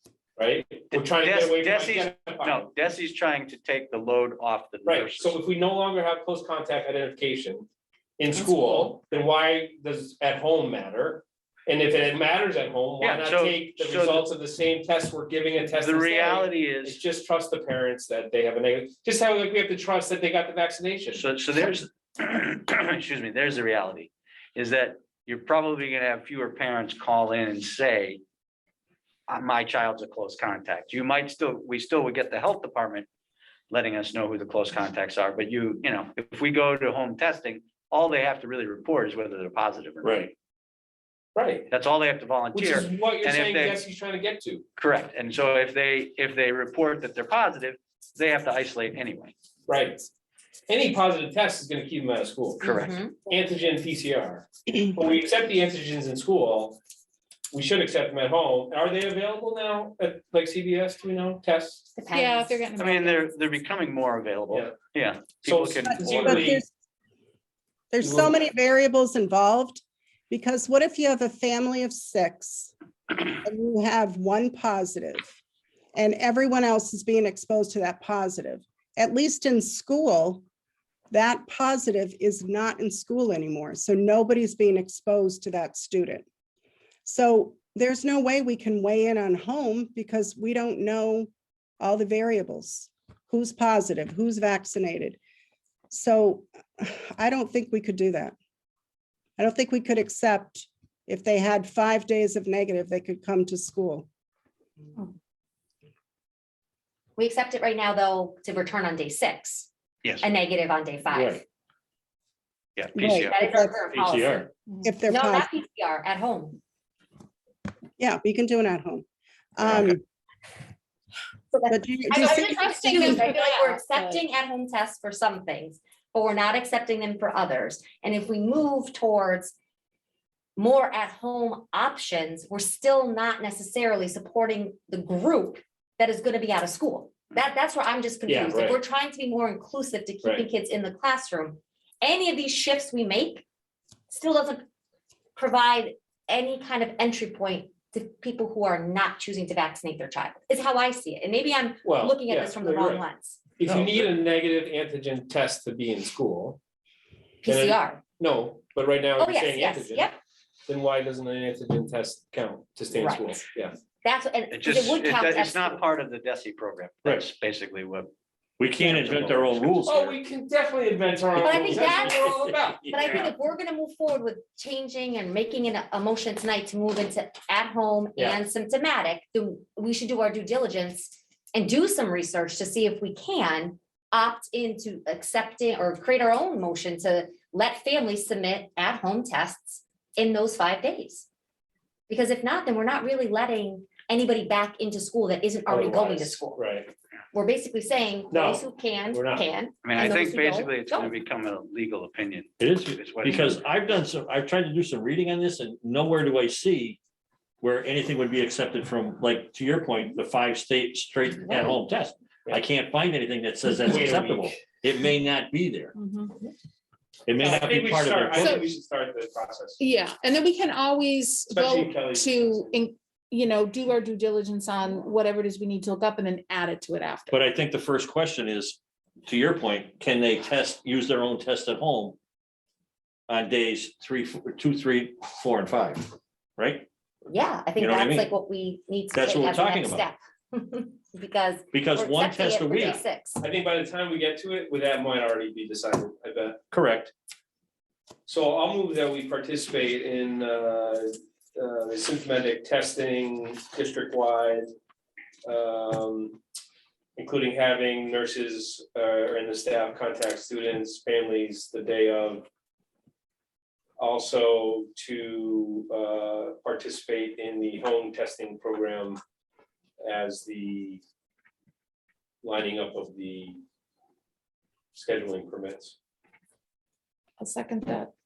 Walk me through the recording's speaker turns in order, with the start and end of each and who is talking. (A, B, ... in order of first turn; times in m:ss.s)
0:00.4-0:02.7 A
0:00.9-0:05.4 B
0:04.8-0:07.7 A
0:08.2-0:21.2 A
0:13.0-0:14.2 B
0:15.8-0:17.0 B
0:21.1-0:28.2 B
0:29.3-0:33.1 B
0:33.7-0:40.2 B
0:40.0-0:40.3 C
0:41.3-0:41.7 A
0:41.7-0:43.8 B
0:42.5-0:44.6 A
0:44.8-0:49.3 B
0:49.7-0:50.0 A
0:50.7-0:52.6 A
0:52.6-0:53.3 D
0:52.6-0:53.0 B
0:53.2-0:56.8 A
0:57.5-1:01.9 A
1:02.0-1:02.7 D
1:02.1-1:03.5 E
1:02.8-1:06.6 B
1:04.5-1:04.7 A
1:05.4-1:06.6 A
1:05.8-1:06.7 F
1:07.9-1:12.7 F
1:08.0-1:08.4 A
1:13.4-1:15.3 F
1:15.9-1:20.4 F
1:21.1-1:26.2 F
1:27.0-1:35.2 F
1:35.9-1:38.3 F
1:39.4-1:44.1 F
1:47.2-1:49.7 D
1:50.2-1:51.4 D
1:51.1-1:51.4 C
1:52.8-1:53.4 B
1:53.0-1:53.7 F
1:53.3-1:54.5 D
1:53.8-1:54.5 C
1:54.7-1:54.9 E
1:54.8-1:55.5 F
1:55.1-1:56.6 D
1:58.0-2:00.0 F
2:01.5-2:09.5 D
2:01.7-2:03.3 F
2:02.1-2:04.2 E
2:10.6-2:23.4 D
2:18.3-2:18.8 A
2:24.1-2:24.6 D
2:25.4-2:33.6 D
2:31.8-2:33.0 A
2:33.6-2:36.6 A
2:33.6-2:34.1 C
2:37.4-2:38.0 D
2:37.4-2:40.1 A
2:39.2-2:40.2 D
2:40.7-2:43.8 A
2:42.9-2:43.4 D
2:44.0-2:45.8 D
2:44.5-2:48.1 B
2:48.6-2:50.2 C
2:48.8-2:53.1 A
2:51.4-2:53.3 C
2:51.4-3:11.3 D
3:12.1-3:16.6 D
3:15.7-3:16.9 A
3:17.3-3:21.2 D
3:18.3-3:19.5 A
3:19.8-3:23.6 B
3:22.6-3:27.0 C
3:27.6-3:35.9 C
3:33.8-3:34.6 A
3:35.9-3:36.4 E
3:37.3-3:38.6 C
3:37.4-3:39.8 A
3:38.3-3:38.6 E
3:39.8-3:47.3 E
3:41.5-3:42.7 A
3:47.3-3:52.2 C
3:53.3-3:56.9 C
3:57.3-4:03.4 D
3:57.8-3:58.3 C
3:59.1-4:00.0 C
4:01.7-4:03.0 C
4:03.4-4:06.6 A
4:06.7-4:07.1 C
4:08.2-4:14.7 A
4:15.4-4:16.4 A
4:17.2-4:22.5 A
4:24.0-4:29.2 A
4:30.0-4:31.0 A
4:32.4-4:33.6 A
4:34.9-4:35.9 A
4:37.4-4:38.1 E